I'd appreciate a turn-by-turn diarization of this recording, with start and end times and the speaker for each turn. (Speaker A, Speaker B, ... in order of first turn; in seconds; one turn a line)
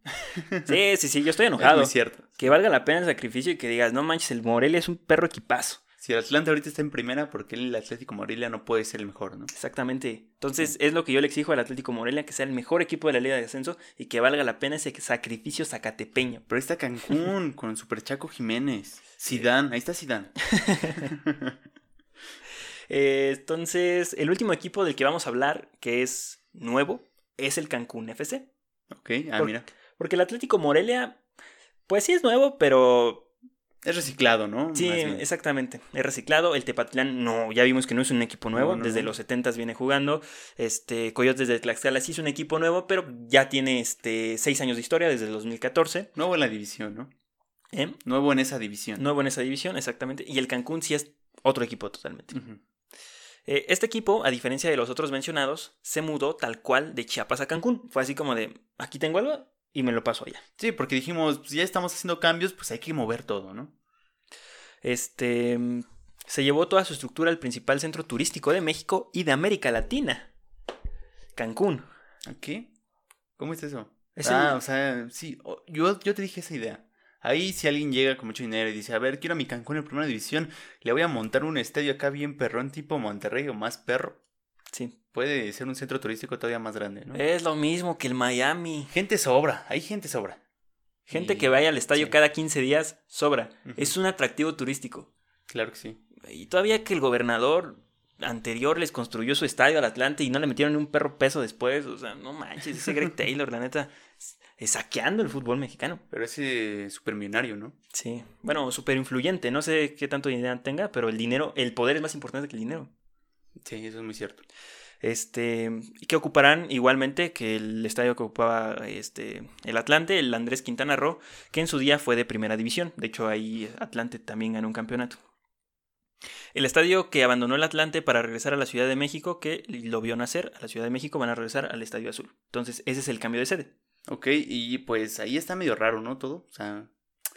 Speaker A: 0.2-0.8
Speaker B: 0.7-5.8
Speaker A: 1.6-2.5
Speaker A: 6.0-9.5
Speaker B: 9.5-16.4
Speaker A: 16.5-20.4
Speaker B: 20.5-21.1
Speaker A: 20.9-21.5
Speaker B: 22.9-28.4
Speaker A: 28.9-29.6
Speaker B: 29.4-31.2
Speaker B: 31.9-33.3
Speaker A: 33.8-35.2
Speaker B: 34.7-46.1
Speaker A: 38.5-39.1
Speaker A: 46.1-47.1
Speaker B: 47.7-48.0
Speaker A: 48.0-49.0
Speaker B: 49.0-52.3
Speaker A: 52.3-52.6
Speaker B: 53.5-60.4
Speaker A: 60.6-63.7
Speaker B: 64.8-70.3
Speaker B: 71.3-71.8
Speaker A: 72.2-72.7
Speaker A: 73.4-84.2
Speaker B: 74.1-74.6
Speaker B: 84.7-85.0
Speaker A: 85.1-87.2
Speaker B: 87.1-88.9
Speaker A: 88.9-90.4
Speaker B: 91.1-95.1
Speaker A: 91.1-92.2
Speaker A: 93.7-93.9
Speaker A: 95.5-96.0
Speaker B: 96.2-106.0
Speaker A: 106.1-107.8
Speaker B: 107.9-112.9
Speaker A: 113.6-114.4
Speaker B: 115.0-125.2
Speaker B: 126.5-133.7
Speaker A: 134.1-136.9